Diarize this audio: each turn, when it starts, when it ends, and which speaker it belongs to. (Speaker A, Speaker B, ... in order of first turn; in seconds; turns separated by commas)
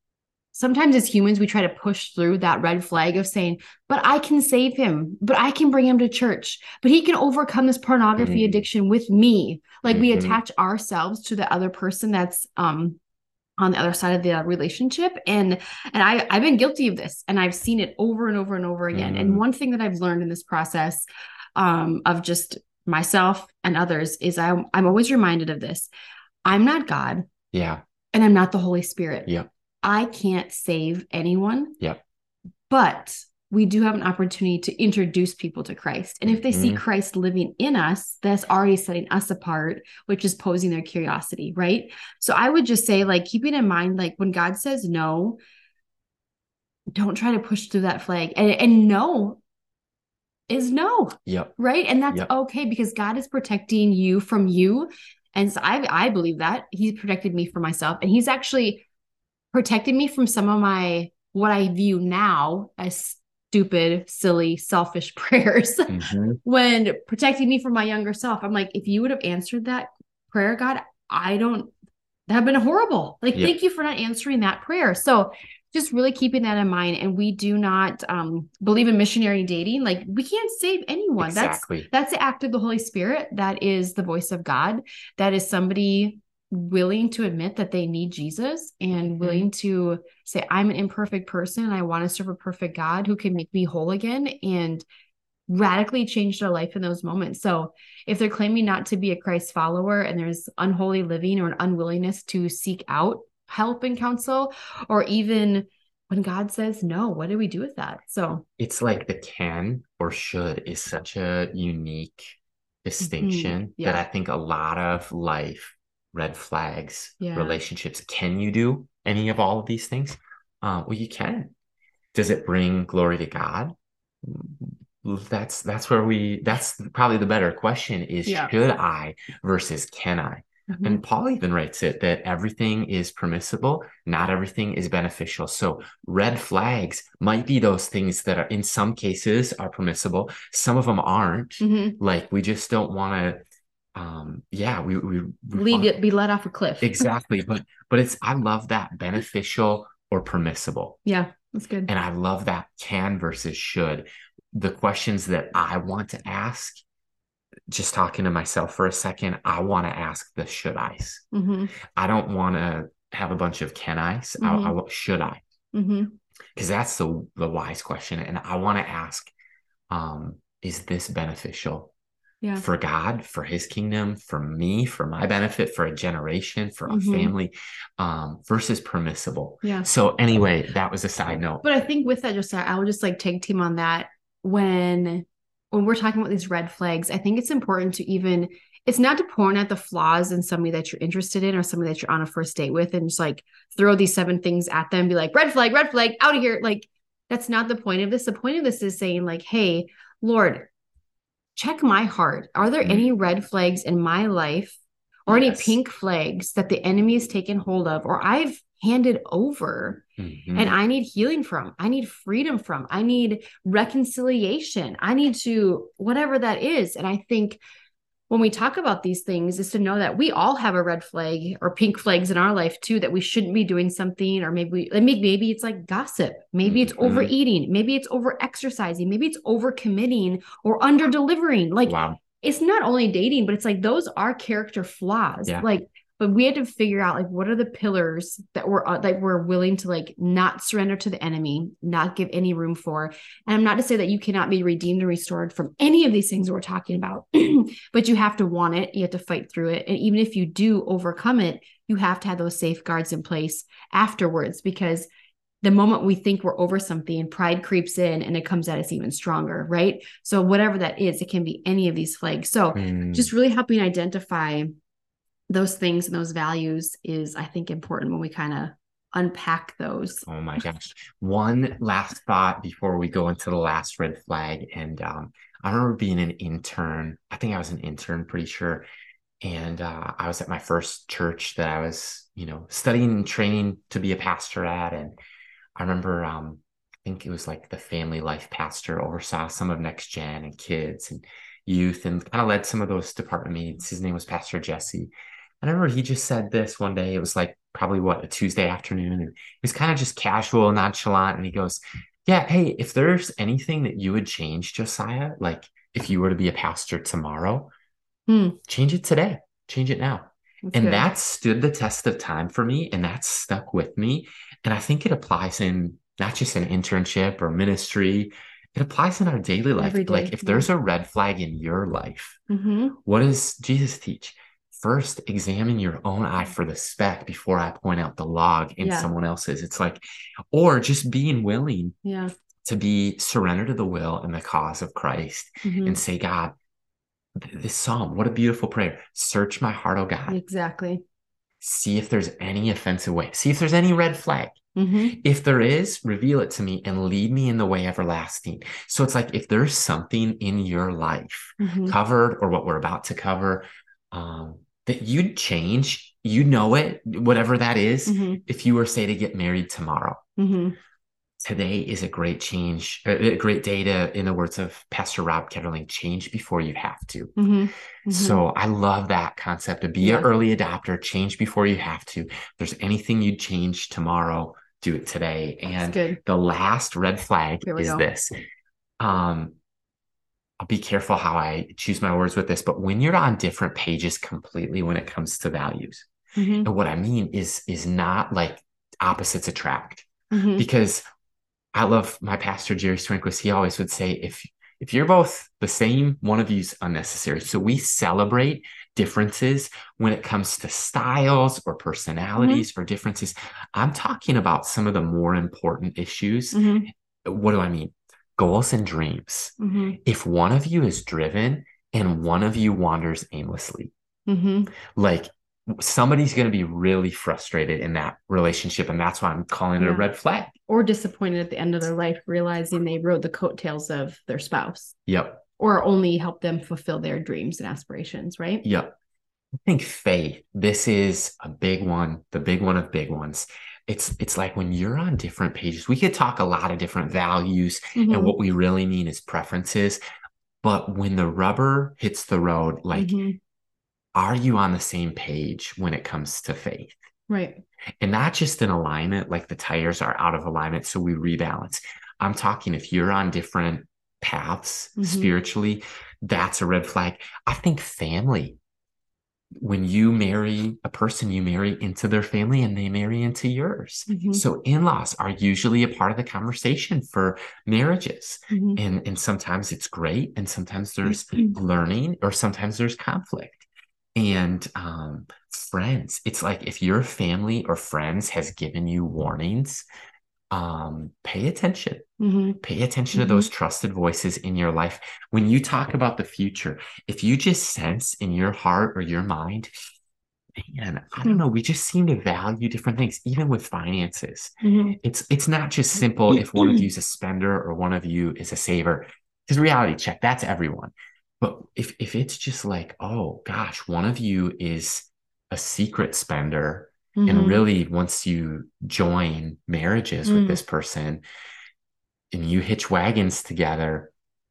Speaker A: 0.5-13.0, Speaker B: 8.2-8.6, Speaker B: 9.9-10.4, Speaker A: 13.6-25.9, Speaker B: 18.9-19.4, Speaker A: 26.4-27.3, Speaker B: 27.5-27.8, Speaker A: 28.1-29.3, Speaker A: 29.8-31.8, Speaker A: 32.7-45.4, Speaker B: 36.3-36.8, Speaker A: 46.9-49.4, Speaker A: 50.5-58.8, Speaker B: 51.3-51.5, Speaker A: 59.5-71.7, Speaker B: 65.9-66.4, Speaker A: 72.3-94.9, Speaker B: 81.2-81.9, Speaker B: 89.2-89.5, Speaker A: 95.5-108.5, Speaker B: 108.6-121.5, Speaker A: 113.0-114.0, Speaker A: 117.2-117.6, Speaker B: 122.1-143.4, Speaker A: 128.3-128.5, Speaker A: 130.7-131.0, Speaker A: 141.6-142.0, Speaker B: 143.9-145.9, Speaker A: 145.5-147.1, Speaker B: 146.8-151.0, Speaker A: 151.1-151.9, Speaker B: 151.9-156.8, Speaker B: 157.7-161.2, Speaker A: 161.3-161.7, Speaker B: 162.0-165.4, Speaker A: 164.4-164.8, Speaker A: 165.7-166.1, Speaker B: 166.6-169.3, Speaker B: 169.9-171.9, Speaker B: 172.6-181.7, Speaker A: 176.9-177.3, Speaker A: 181.6-200.7, Speaker A: 201.6-210.0, Speaker B: 205.3-205.8, Speaker B: 210.2-210.8, Speaker A: 210.6-217.6, Speaker A: 218.3-255.1, Speaker B: 226.6-227.3, Speaker B: 231.9-232.2, Speaker A: 255.6-264.7, Speaker B: 262.8-263.3, Speaker A: 265.5-270.2, Speaker B: 270.3-278.9, Speaker B: 279.4-285.1, Speaker B: 285.8-295.1, Speaker B: 295.6-307.7, Speaker A: 308.3-308.6, Speaker B: 308.7-322.4, Speaker A: 310.7-311.1, Speaker A: 319.8-320.7, Speaker A: 322.5-323.0, Speaker B: 323.1-332.0, Speaker A: 328.8-329.1, Speaker A: 332.0-332.3, Speaker B: 332.6-336.6, Speaker A: 335.6-336.0, Speaker B: 337.4-340.4, Speaker A: 340.3-341.0, Speaker B: 341.6-344.6, Speaker A: 344.8-345.2, Speaker B: 345.2-360.2, Speaker A: 351.6-352.0, Speaker A: 358.1-358.4, Speaker A: 360.4-360.8, Speaker B: 361.4-367.4, Speaker A: 367.4-368.4, Speaker B: 368.1-378.3, Speaker A: 370.0-370.3, Speaker A: 375.7-376.2, Speaker A: 377.6-378.0, Speaker B: 379.0-379.6, Speaker B: 380.6-386.1, Speaker A: 386.4-386.7, Speaker B: 386.6-391.0, Speaker A: 390.3-390.6, Speaker B: 391.7-406.6, Speaker A: 402.4-402.6, Speaker A: 406.5-406.9, Speaker B: 407.2-413.9, Speaker A: 409.6-410.0, Speaker A: 414.3-414.7, Speaker B: 414.9-420.5, Speaker A: 419.8-420.1, Speaker A: 420.7-425.0, Speaker B: 425.1-425.4, Speaker A: 425.6-428.6, Speaker B: 428.6-428.9, Speaker B: 429.6-440.0, Speaker A: 438.0-438.4, Speaker B: 440.6-443.1, Speaker A: 442.9-443.4, Speaker B: 444.1-447.0, Speaker A: 447.3-447.6, Speaker B: 448.0-458.6, Speaker A: 455.0-455.3, Speaker B: 459.6-479.9, Speaker A: 464.1-464.4, Speaker A: 468.5-468.8, Speaker A: 471.1-471.5, Speaker B: 480.5-482.1, Speaker A: 482.2-482.6, Speaker B: 482.6-489.7, Speaker A: 483.1-483.5, Speaker B: 490.6-511.2, Speaker A: 494.6-495.0, Speaker A: 496.3-496.8, Speaker A: 507.1-507.6, Speaker A: 510.3-510.6, Speaker B: 512.3-514.1